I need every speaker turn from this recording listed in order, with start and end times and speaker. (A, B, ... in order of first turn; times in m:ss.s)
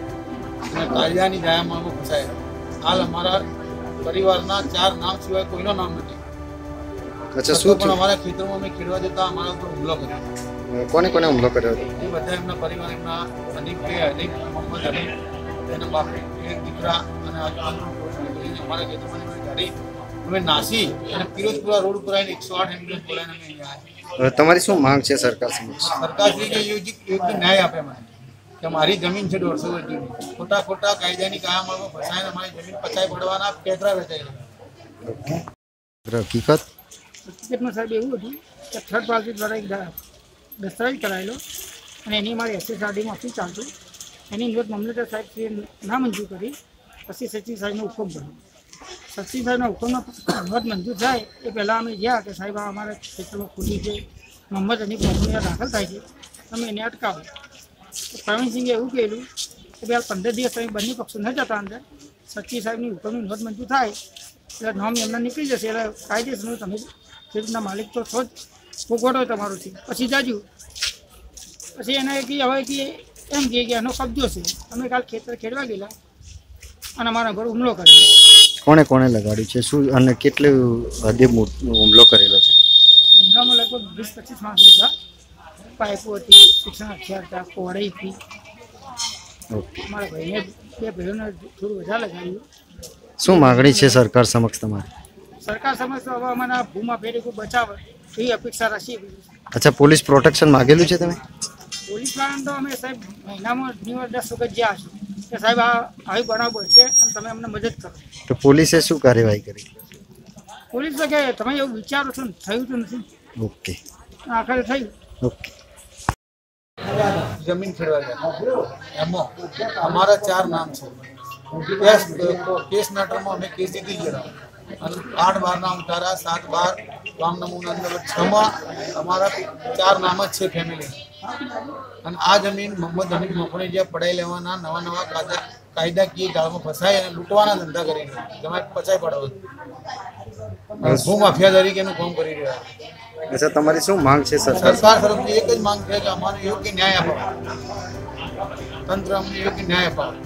0:00.7-0:03.5 A
0:04.0-0:06.2 A
0:07.4-0:08.0 B
0:07.5-0:10.2 A
0:10.7-0:11.9 B
0:12.0-0:15.1 A
0:15.7-0:23.8 A
0:24.2-0:25.9 B
0:25.9-0:28.1 A
0:28.6-0:34.4 A
0:35.1-0:35.4 B
0:36.1-0:36.7 B
0:37.3-0:39.9 C
0:40.6-0:41.4 C
0:42.0-0:43.7 C
0:44.3-0:46.6 C
0:47.1-0:48.4 C
0:49.1-0:57.3 C
0:58.1-0:59.3 C
0:59.8-1:04.0 C
1:04.6-1:08.3 C
1:08.9-1:10.5 C
1:11.8-1:15.9 C
1:17.0-1:18.2 C
1:18.6-1:22.6 B
1:23.2-1:24.9 C
1:25.8-1:28.2 C
1:29.5-1:29.9 B
1:29.8-1:32.4 C
1:33.2-1:34.9 B
1:33.3-1:34.0 C
1:35.4-1:39.2 C
1:39.5-1:41.2 B
1:41.9-1:48.1 C
1:48.3-1:49.8 B
1:50.7-1:53.1 C
1:53.4-1:53.8 B
1:54.3-1:54.9 C
1:55.2-1:55.5 B
1:57.4-1:58.2 A
1:59.0-2:01.0 A
2:01.7-2:04.3 A
2:04.8-2:11.0 A
2:12.0-2:19.4 A
2:20.8-2:22.6 A
2:20.8-2:21.1 B
2:23.3-2:24.8 B
2:24.6-2:27.2 A
2:28.9-2:30.2 A